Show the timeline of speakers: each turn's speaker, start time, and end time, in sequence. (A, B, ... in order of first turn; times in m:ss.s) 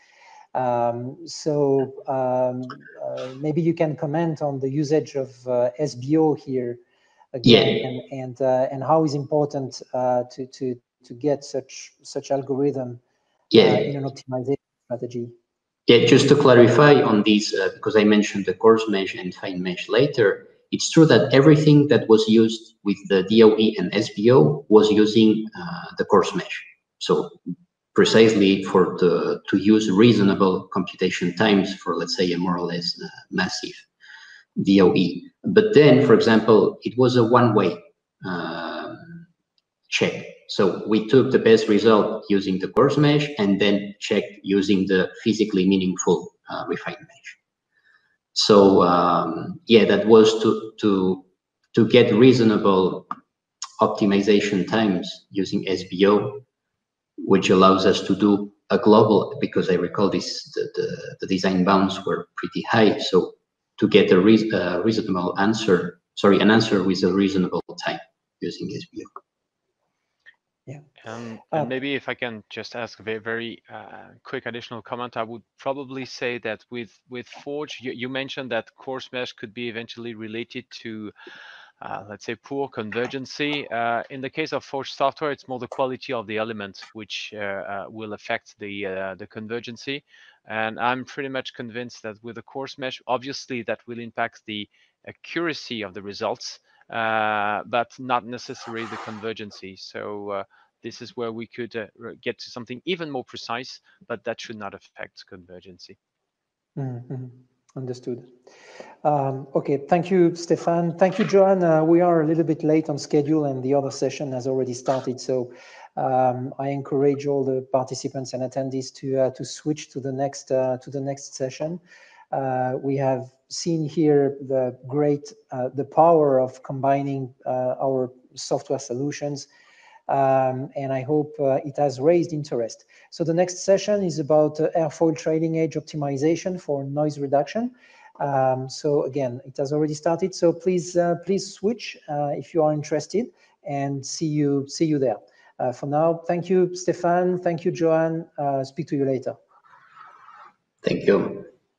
0:00.5-0:06.8 A
0:07.3-0:13.0 A
0:07.4-0:07.8 B
0:13.5-0:13.8 B
0:13.5-0:15.3 A
0:15.9-0:27.4 B
0:27.9-0:33.9 B
0:34.6-0:39.2 B
0:39.9-0:47.4 B
0:48.3-0:53.1 B
0:53.8-0:56.4 B
0:57.2-1:09.1 B
1:11.0-1:21.1 C
1:21.8-1:46.0 C
1:46.8-1:48.3 A
1:49.0-2:01.8 A
2:02.3-2:09.5 A
2:10.1-2:29.4 A
2:30.8-2:31.5 B